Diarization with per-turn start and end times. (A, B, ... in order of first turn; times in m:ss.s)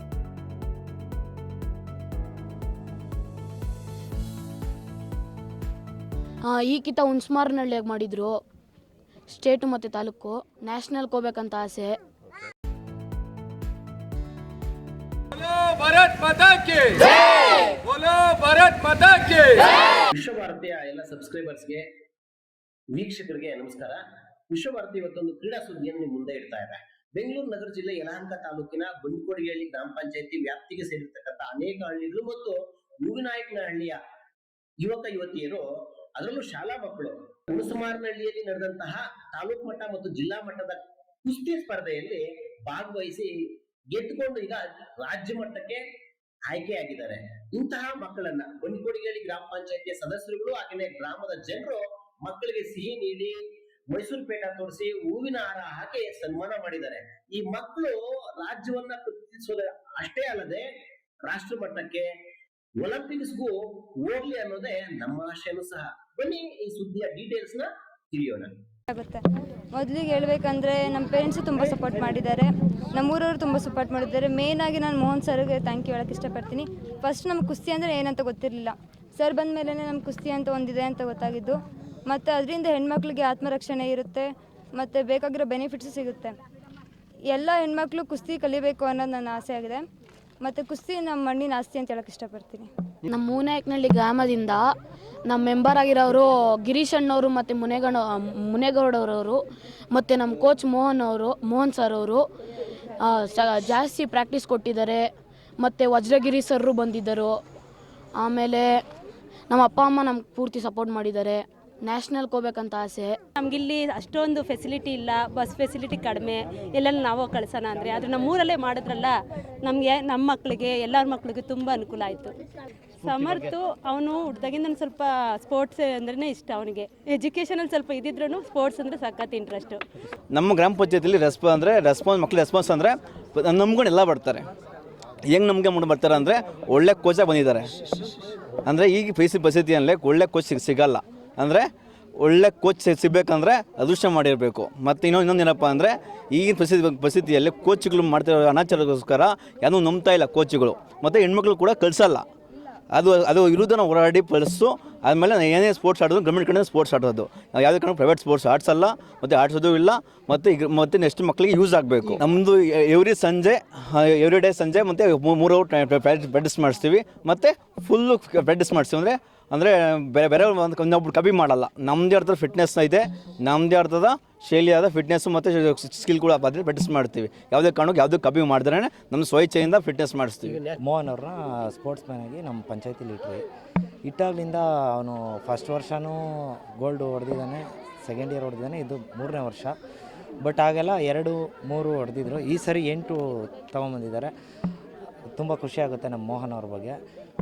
0:06.4-0:08.4 A
0:09.3-0:12.0 A
0:19.2-0:21.8 B
0:22.9-0:34.0 B
0:34.8-0:35.6 B
0:36.2-0:43.3 B
0:43.9-0:45.8 B
0:46.5-0:53.4 B
0:53.9-1:00.6 B
1:01.2-1:02.0 B
1:02.8-1:08.6 B
1:08.9-1:26.4 C
1:11.6-1:12.0 B
1:27.3-1:29.8 C
1:30.4-1:32.7 C
1:33.1-1:34.6 A
1:35.3-1:39.4 A
1:39.9-1:42.2 A
1:43.0-1:45.0 A
1:45.6-1:47.3 A
1:48.2-1:48.7 A
1:49.5-1:53.2 A
1:53.4-2:02.3 D
2:03.0-2:09.8 D
2:10.3-2:14.4 E
2:15.3-2:17.7 E
2:18.6-2:21.7 E
2:22.2-2:32.2 E
2:32.9-3:00.6 E
3:00.4-3:00.8 B
3:00.8-3:03.4 F
3:04.0-3:09.8 F
3:10.4-3:14.3 F
3:15.3-3:17.0 F